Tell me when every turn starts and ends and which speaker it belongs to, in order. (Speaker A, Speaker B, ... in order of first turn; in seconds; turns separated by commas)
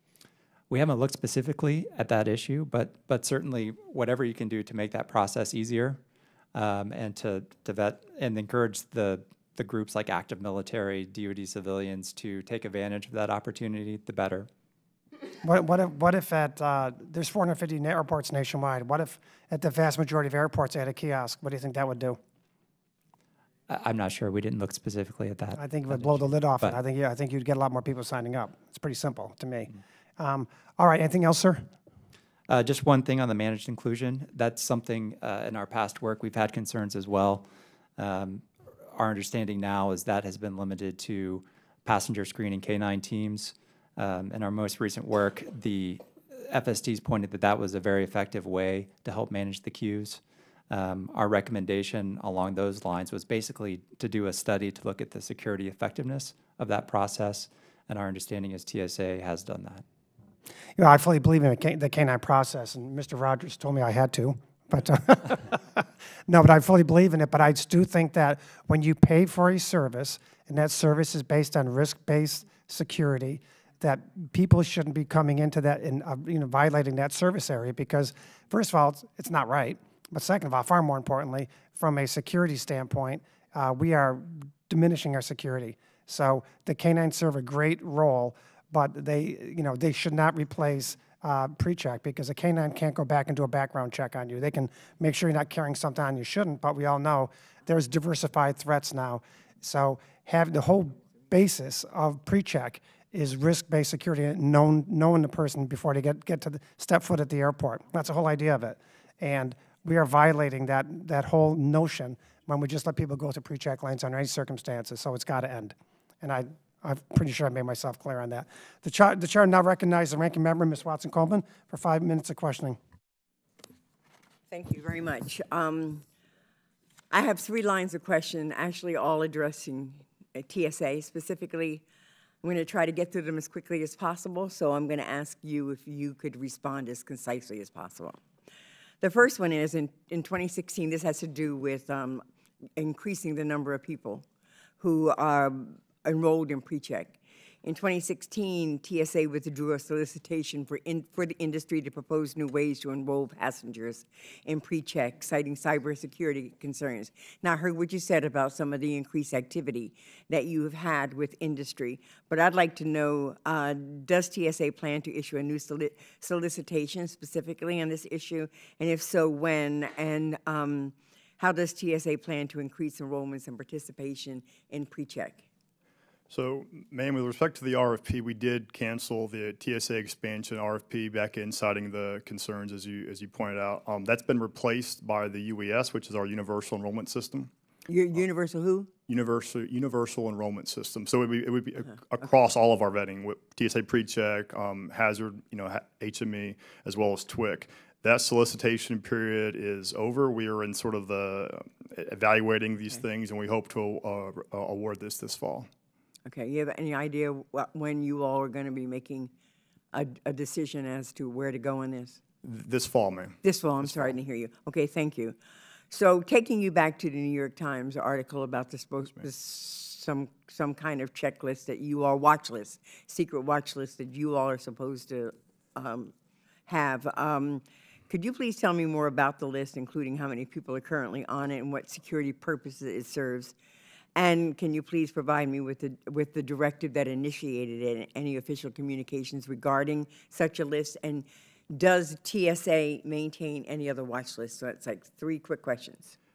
Speaker A: 0.7-6.0, Speaker A: 6.5-14.5, Speaker B: 15.4-22.2, Speaker A: 23.7-26.8, Speaker B: 25.6-31.7, Speaker A: 32.5-37.4, Speaker A: 38.0-59.8, Speaker B: 60.8-122.8, Speaker C: 124.5-126.0, Speaker C: 127.1-131.8, Speaker C: 132.4-138.2, Speaker C: 139.0-142.2, Speaker C: 142.8-144.2, Speaker C: 144.8-175.4, Speaker D: 176.3-187.5, Speaker C: 187.9-188.9, Speaker D: 189.1-205.7, Speaker C: 206.2-209.3, Speaker C: 209.9-212.2, Speaker D: 212.4-214.1, Speaker C: 213.4-215.4, Speaker C: 215.9-226.1, Speaker C: 226.7-233.5, Speaker C: 234.2-246.2